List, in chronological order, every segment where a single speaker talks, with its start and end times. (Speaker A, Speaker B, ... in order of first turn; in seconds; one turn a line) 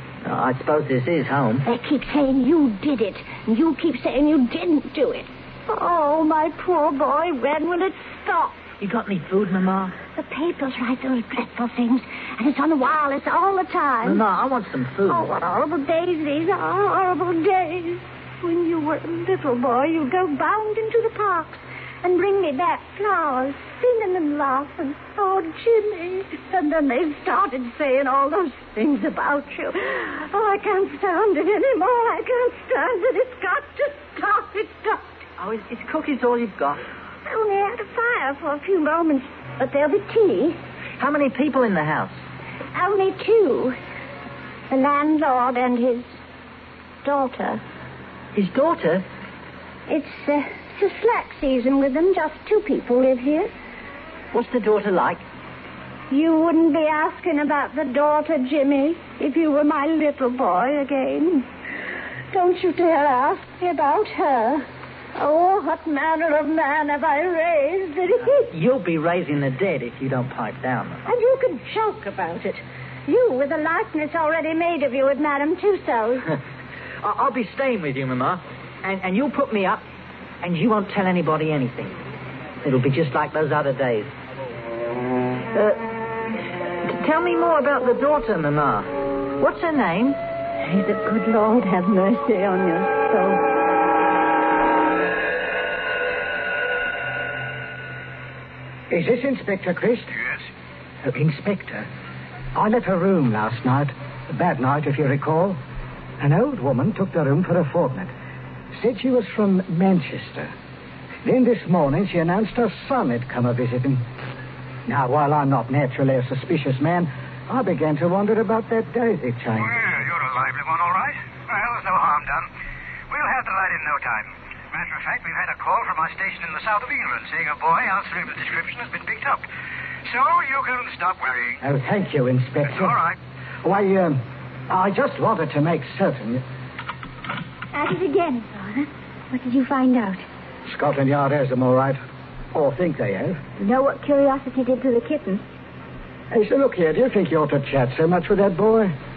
Speaker A: 0.2-1.6
Speaker B: 1.6-8.6
Speaker A: 8.8-9.9
Speaker B: 10.2-14.2
Speaker A: 14.0-15.3
Speaker B: 15.1-35.0
Speaker A: 35.4-36.8
Speaker B: 37.2-40.5
Speaker A: 41.0-42.2
Speaker B: 42.7-43.8
Speaker B: 44.7-46.1
Speaker B: 47.0-47.6
Speaker A: 48.3-49.0
Speaker B: 49.9-53.5
Speaker A: 54.3-55.2
Speaker B: 56.1-61.4
Speaker B: 62.3-64.6
Speaker B: 65.2-68.5
Speaker A: 68.5-71.0
Speaker B: 71.0-76.2
Speaker A: 77.0-79.8
Speaker A: 80.4-82.0
Speaker A: 82.6-84.1
Speaker A: 85.5-85.8
Speaker A: 86.8-90.2
Speaker C: 90.9-91.5
Speaker C: 92.2-92.7
Speaker D: 98.9-100.1
Speaker D: 101.0-101.9
Speaker D: 102.5-105.6
Speaker D: 106.2-108.1
Speaker D: 108.7-110.5
Speaker D: 111.2-114.0
Speaker D: 114.9-119.8
Speaker E: 119.6-122.4
Speaker E: 123.1-129.4
Speaker E: 130.1-131.5
Speaker D: 131.6-133.0
Speaker D: 133.6-136.4
Speaker C: 137.7-140.2
Speaker D: 140.6-142.0
Speaker D: 142.5-143.4
Speaker C: 143.6-145.4
Speaker D: 146.3-148.9